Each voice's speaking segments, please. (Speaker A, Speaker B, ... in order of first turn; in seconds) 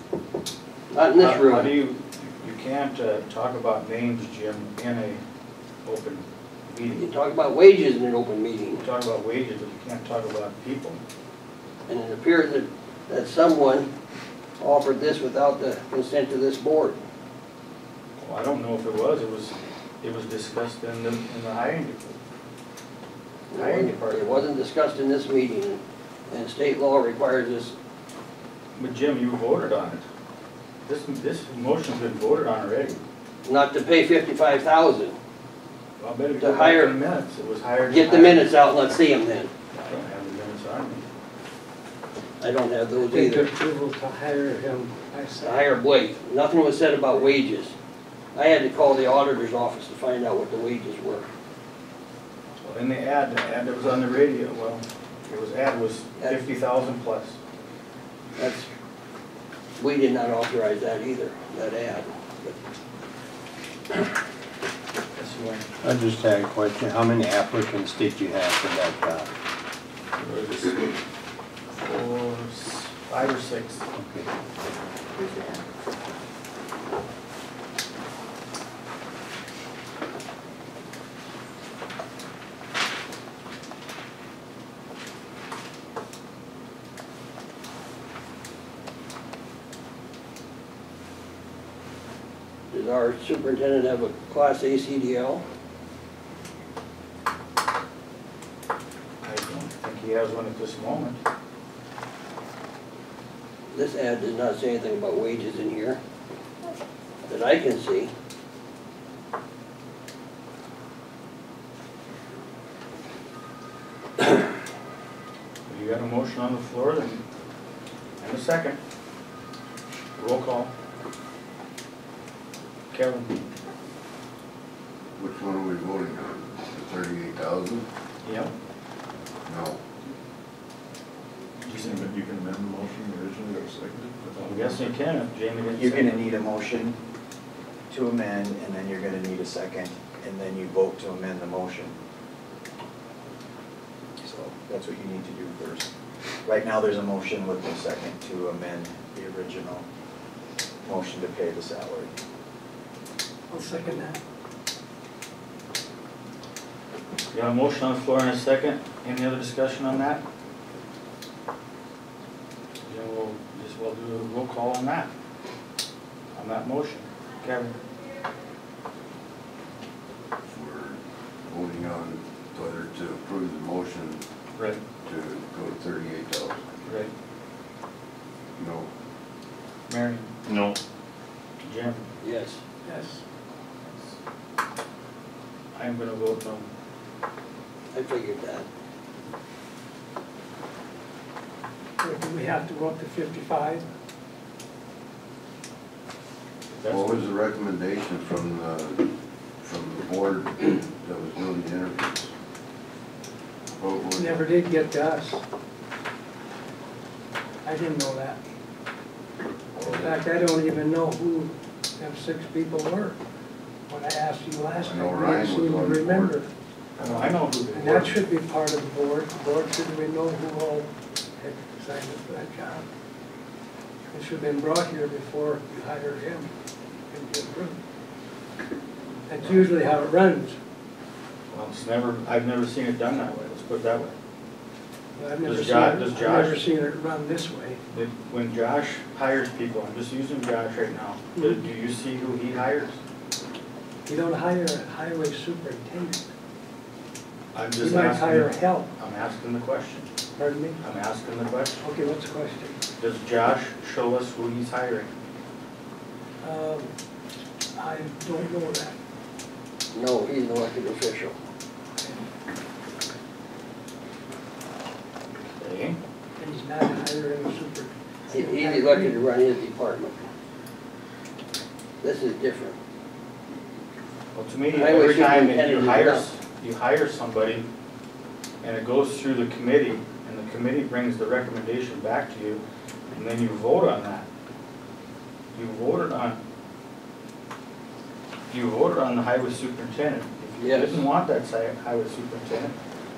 Speaker A: 0.9-1.8, 7.0-8.8, 11.9-13.9, 14.6-17.0, 23.5-27.7, 33.5-35.2, 36.4-37.0, 37.9-39.5, 42.4-43.5, 45.4-47.8, 48.4-51.3, 58.4-58.7, 59.8-62.6, 92.7-95.4, 103.7-106.0, 107.3-108.1, 182.2-182.6, 187.9-188.7, 259.9-261.4, 268.3-270.2, 272.0-272.8, 274.7-276.3, 290.6-291.1
Speaker B: 1.1-5.2, 5.8-7.1, 8.8-11.0, 18.2-22.2, 23.5-24.5, 28.8-30.1, 30.9-33.0, 36.0-38.6, 39.7-41.1, 52.6-57.4, 65.1-65.7, 70.2-70.9, 71.7-73.8, 99.2-101.2, 115.7-117.2, 118.2-118.8, 120.2-120.7, 122.9-123.4, 128.2-128.5, 131.6-132.1, 134.3-136.3, 157.3-160.2, 162.8-165.1, 166.3-167.8, 176.8-177.1, 179.9-180.3, 181.6-182.1, 183.9-184.1, 185.7-186.7, 196.8-197.3, 217.0-218.2, 229.4-229.6, 231.5-234.1, 235.4-236.7, 237.9-243.0, 247.5-250.1, 250.8-251.8, 253.0-255.1, 265.5-266.0, 274.3-277.7, 278.6-284.3, 285.5-286.4, 288.5-292.8
Speaker C: 43.0-45.7, 153.5-154.2, 182.9-183.2, 192.0-193.8, 204.1-205.4, 207.7-208.4, 209.8-213.2, 213.9-216.5, 217.7-220.9, 221.4-222.9, 224.1-226.5, 227.1-227.8, 229.3-230.6, 235.2-237.8, 244.1-246.3, 247.8-248.9, 250.4-250.8, 251.8-252.8, 256.4-256.9, 257.8-259.0, 266.4-269.2
Speaker D: 65.8-69.3, 74.0-74.3
Speaker E: 125.2-127.9, 129.5-129.8, 170.4-174.2, 175.0-176.6, 178.6-178.9, 196.8-202.3, 203.8-204.5, 209.8-210.1, 214.8-216.4, 217.0-217.5
Speaker F: 131.8-134.9, 180.5-180.8
Speaker G: 135.8-137.0, 137.9-142.0, 144.2-145.9, 146.4-149.8, 150.8-152.1